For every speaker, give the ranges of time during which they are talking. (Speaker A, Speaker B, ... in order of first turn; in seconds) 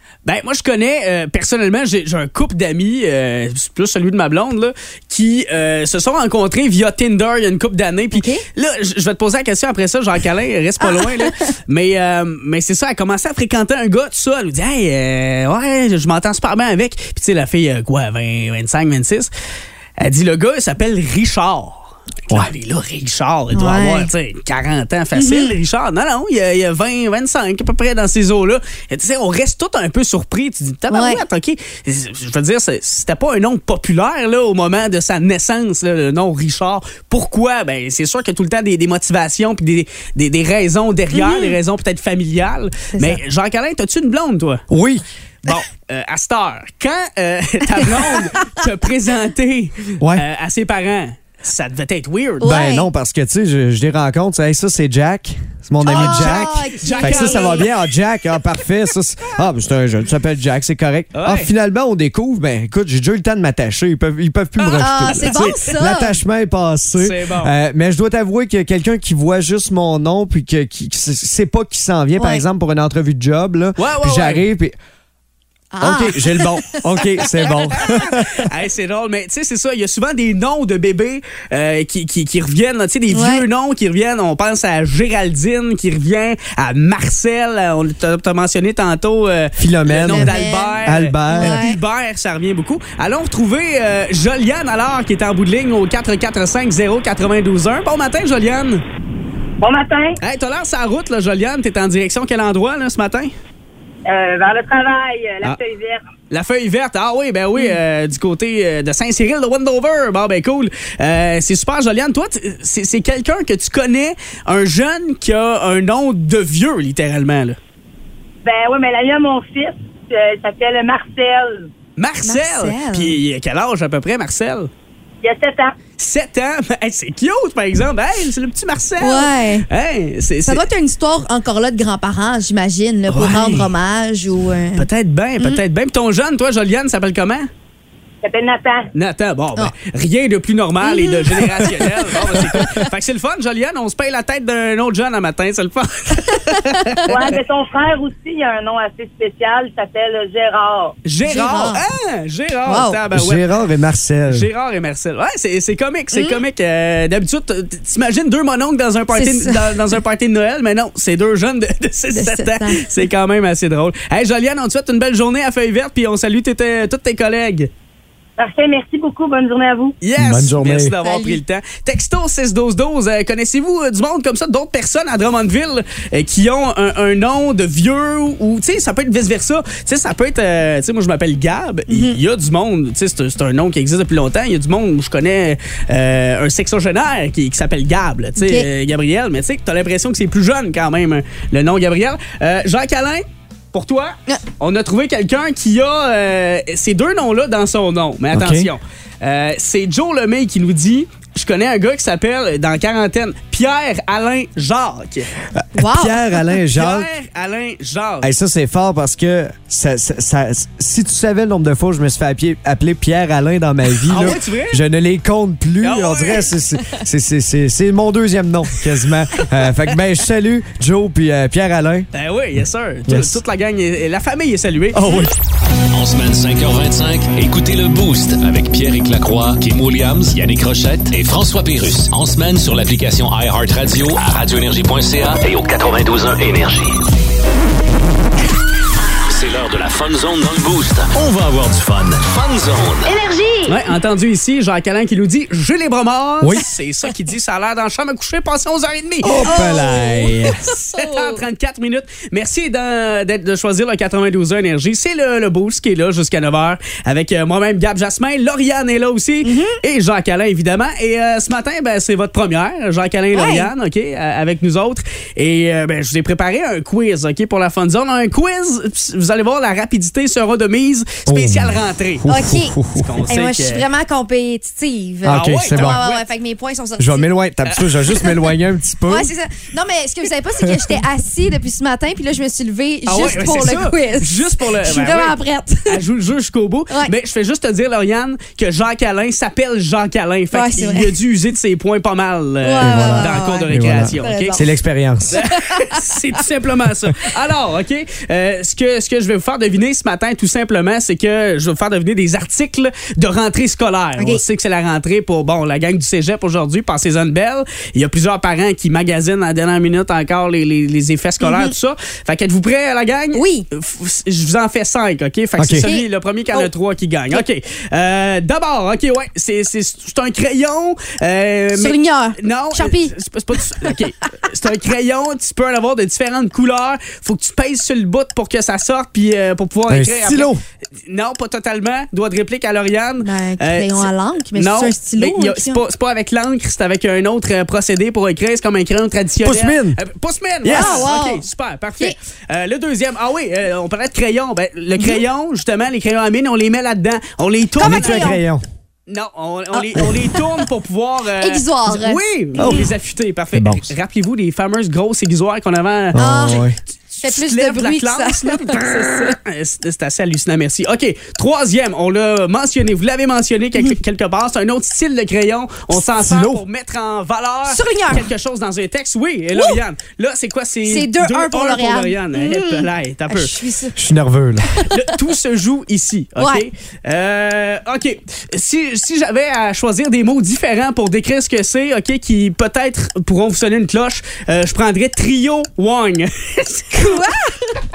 Speaker A: 0.2-19.3, 20.0-44.6, 45.5-52.5, 55.9-57.8, 61.1-61.5, 65.1-65.8, 67.0-67.5, 73.8-74.5, 77.8-98.8, 100.2-103.3, 106.3-117.6, 122.0-124.7, 126.0-130.7, 133.1-133.7, 134.8-137.5, 138.9-147.3, 151.1-153.5, 154.3-167.7, 170.0-205.3, 206.7-208.3, 214.1-214.8, 215.8-216.6, 222.1-225.0, 243.7-249.7, 250.7-272.3, 273.0-273.9, 275.3-276.2, 277.7-278.4, 283.1-294.7, 295.3-330.5, 331.1-348.4, 349.1-356.2, 357.1-373.6, 374.9-387.2
Speaker B: 8.1-8.4, 10.8-11.5, 23.5-24.1, 25.1-25.6, 30.9-31.2, 41.1-41.6, 42.9-43.2, 47.8-48.5, 52.4-52.9, 55.8-57.7, 64.8-66.2, 72.2-72.4, 75.7-77.2, 83.1-83.5, 90.1-90.8, 91.3-91.8, 122.2-123.2, 129.0-129.7, 130.4-134.9, 140.8-142.6, 146.3-147.3, 151.2-151.8, 152.7-153.0, 156.1-156.4, 159.1-159.8, 162.1-162.9, 171.0-171.4, 181.9-182.2, 188.4-188.7, 205.8-206.4, 243.1-243.7, 249.5-251.4, 259.4-259.8, 263.3-263.7, 272.3-277.3, 279.1-286.0, 290.5-291.1, 292.6-294.7, 295.4-296.2, 311.4-311.7, 313.3-313.6, 315.8-316.7, 321.7-323.9, 333.2-335.8, 340.7-341.4, 345.0-345.2, 347.8-348.4, 349.7-350.6, 351.4-352.9, 356.1-356.6, 357.2-359.4, 367.7-368.3, 370.9-374.0, 374.7-375.0, 376.4-376.6, 386.9-387.8
Speaker C: 44.7-45.0, 52.4-74.8, 75.8-78.5, 89.6-91.6, 153.1-154.5, 170.2-171.0, 198.3-198.7, 205.5-207.1, 208.2-222.1, 223.1-223.4, 224.9-225.3, 249.2-250.6, 271.3-273.1, 275.2-276.0, 277.0-279.3, 292.8-295.4, 315.6-315.9, 329.9-330.6, 339.4-340.0, 340.6-341.1, 347.8-348.6, 352.6-352.9, 353.5-353.9, 356.1-356.8, 366.2-366.6, 374.0-374.7
Speaker D: 99.6-100.2, 104.1-106.0, 118.5-121.7, 125.2-125.8, 138.2-138.9, 147.1-150.9, 168.4-170.0
Speaker E: 225.9-237.0, 239.3-243.1